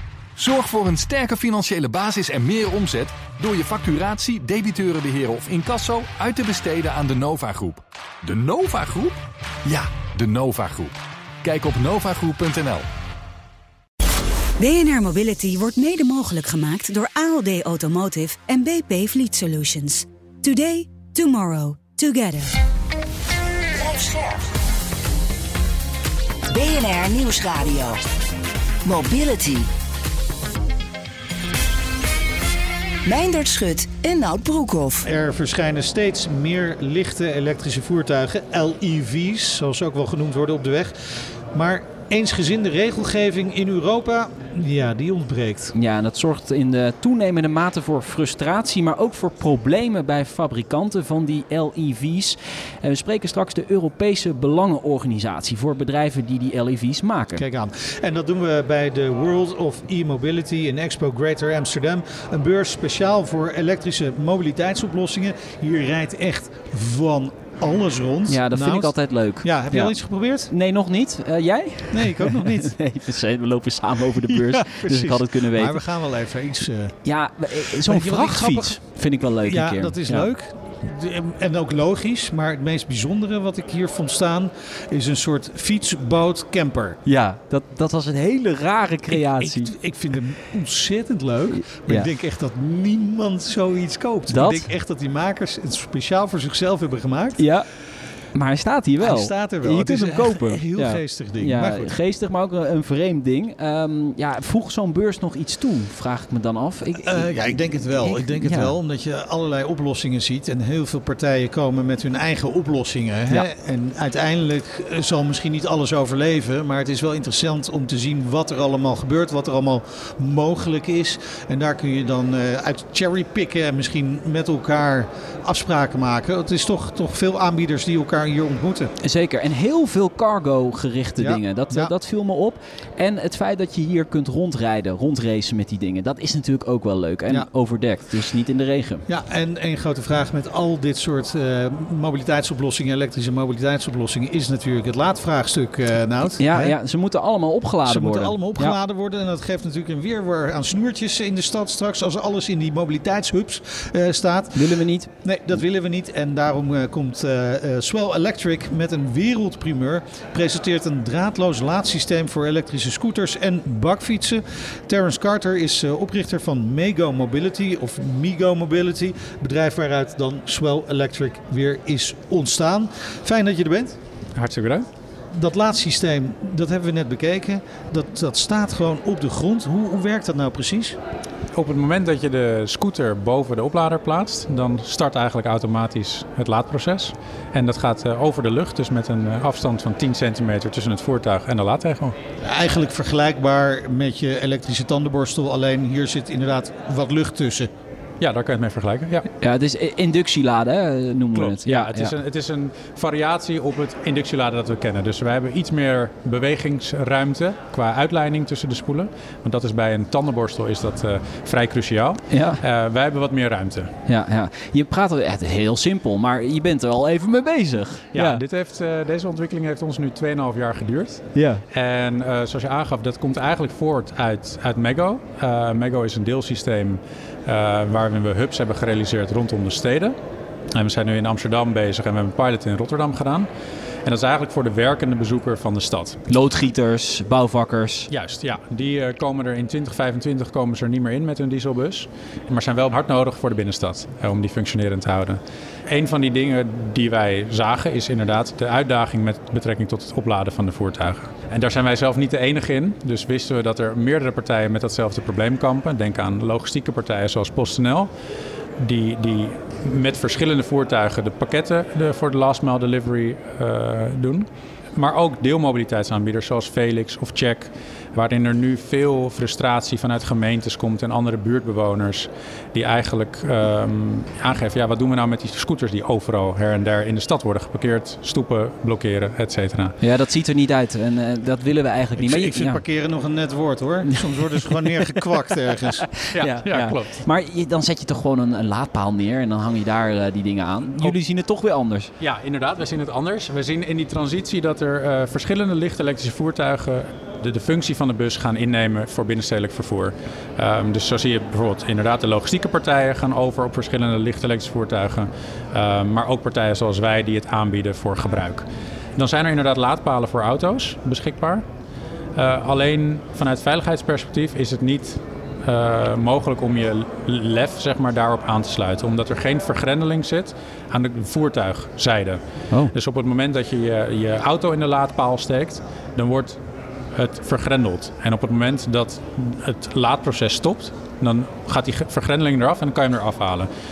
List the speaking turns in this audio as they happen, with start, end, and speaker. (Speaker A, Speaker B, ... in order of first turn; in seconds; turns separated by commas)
Speaker A: 0.3-12.8, Speaker B: 14.6-22.5, Speaker C: 23.8-24.4, Speaker C: 26.5-27.9, Speaker C: 28.9-29.6, Speaker C: 33.1-35.0, Speaker D: 35.0-45.7, Speaker E: 45.7-57.4, Speaker D: 57.3-70.5, Speaker E: 68.3-69.9, Speaker E: 70.5-75.8, Speaker D: 71.9-72.8, Speaker D: 74.3-77.0, Speaker E: 77.0-80.3, Speaker D: 77.5-78.8, Speaker D: 79.4-87.0, Speaker E: 87.0-89.7, Speaker D: 89.1-97.5, Speaker E: 91.5-92.1, Speaker E: 94.3-94.6, Speaker E: 97.4-97.7, Speaker E: 98.3-107.4, Speaker D: 99.0-101.9, Speaker D: 106.9-128.9, Speaker E: 108.0-108.7, Speaker E: 129.0-139.0, Speaker D: 131.2-131.9, Speaker D: 139.1-146.8, Speaker E: 146.4-148.8, Speaker D: 147.8-174.0, Speaker E: 154.5-155.1, Speaker F: 174.3-174.8, Speaker D: 175.3-181.0, Speaker F: 181.5-192.1, Speaker D: 192.4-197.7, Speaker F: 198.2-199.3, Speaker E: 199.4-202.1, Speaker F: 201.3-213.9, Speaker E: 212.3-212.6, Speaker E: 214.1-218.4, Speaker F: 218.1-230.2, Speaker E: 221.3-221.6, Speaker F: 230.7-233.5, Speaker F: 234.0-236.3, Speaker E: 236.3-238.1, Speaker F: 238.1-258.1, Speaker F: 258.8-279.9, Speaker E: 280.0-282.8, Speaker D: 282.2-286.1, Speaker E: 284.1-285.2, Speaker E: 285.9-292.1, Speaker F: 286.3-287.2, Speaker F: 292.2-308.6, Speaker F: 309.1-311.6, Speaker F: 312.4-326.6, Speaker F: 327.1-333.7